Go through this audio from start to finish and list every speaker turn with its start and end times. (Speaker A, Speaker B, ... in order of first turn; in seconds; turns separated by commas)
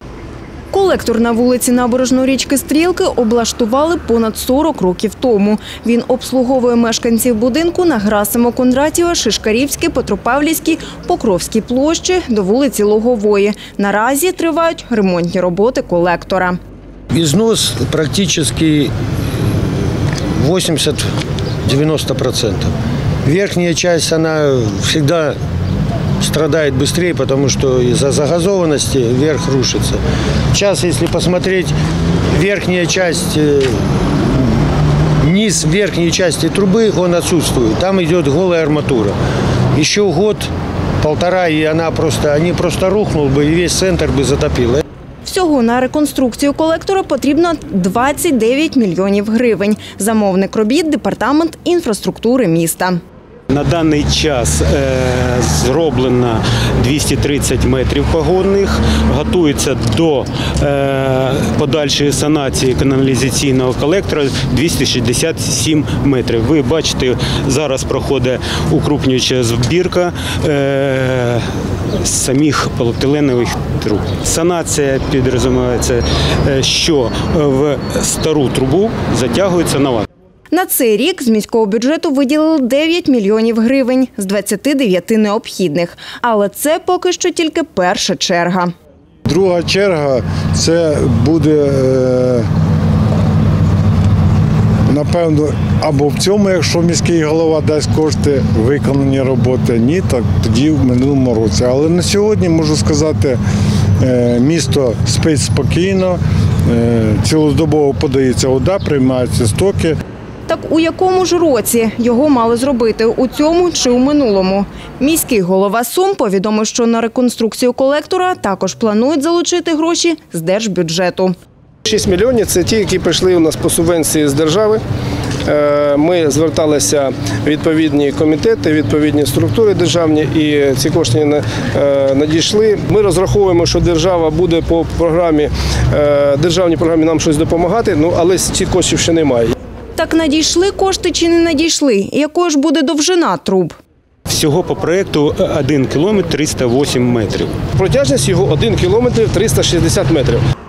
Speaker A: 0.7-16.6, Speaker B: 17.1-18.9, Speaker B: 20.4-21.0, Speaker B: 21.6-22.7, Speaker B: 23.2-25.4, Speaker B: 26.2-30.0, Speaker B: 30.5-31.7, Speaker B: 32.3-34.5, Speaker B: 35.2-39.1, Speaker B: 39.7-40.5, Speaker B: 41.0-44.8, Speaker A: 45.2-53.0, Speaker C: 53.5-71.4, Speaker C: 72.0-80.0, Speaker A: 80.5-88.7, Speaker D: 89.2-92.5, Speaker D: 94.9-103.4, Speaker D: 104.0-110.0, Speaker A: 110.5-121.3, Speaker E: 121.8-124.8, Speaker E: 125.5-139.5, Speaker A: 140.0-143.8, Speaker C: 144.3-147.5, Speaker E: 147.8-150.4